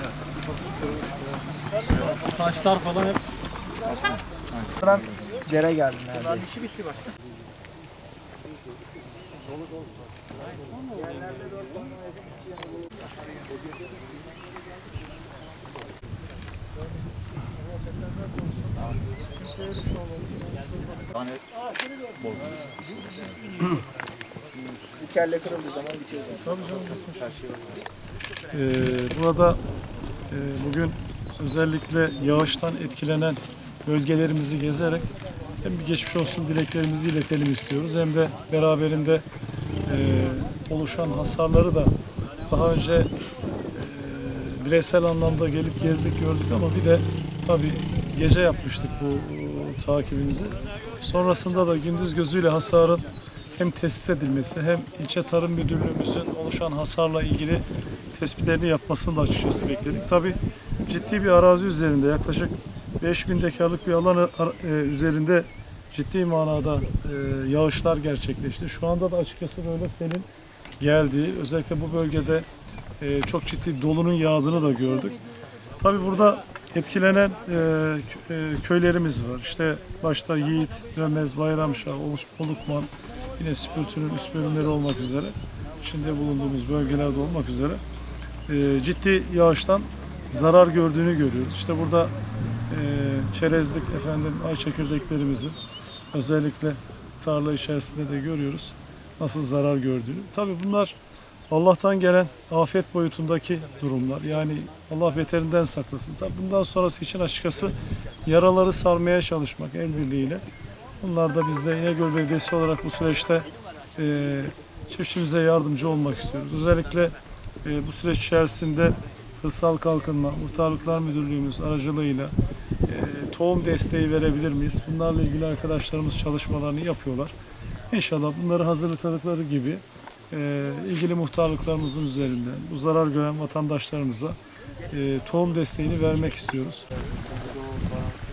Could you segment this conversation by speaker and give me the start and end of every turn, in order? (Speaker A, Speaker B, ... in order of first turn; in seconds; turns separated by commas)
Speaker A: 1.9-3.3, Speaker A: 3.9-4.7, Speaker B: 4.8-6.5, Speaker A: 6.4-7.0, Speaker B: 10.9-13.0, Speaker C: 19.4-21.1, Speaker B: 25.0-26.5, Speaker C: 26.4-27.4, Speaker C: 28.5-29.6, Speaker C: 30.3-35.0, Speaker C: 35.6-39.2, Speaker C: 39.9-41.9, Speaker C: 42.5-43.1, Speaker C: 43.7-53.0, Speaker C: 53.6-57.6, Speaker C: 58.1-70.3, Speaker C: 70.8-72.5, Speaker C: 73.0-75.2, Speaker C: 75.8-87.8, Speaker C: 88.5-92.1, Speaker C: 92.7-95.5, Speaker C: 96.1-101.0, Speaker C: 101.5-107.7, Speaker C: 108.3-110.4, Speaker C: 111.0-113.5, Speaker C: 114.0-122.3, Speaker C: 122.9-127.3, Speaker C: 127.9-134.4, Speaker C: 134.9-136.8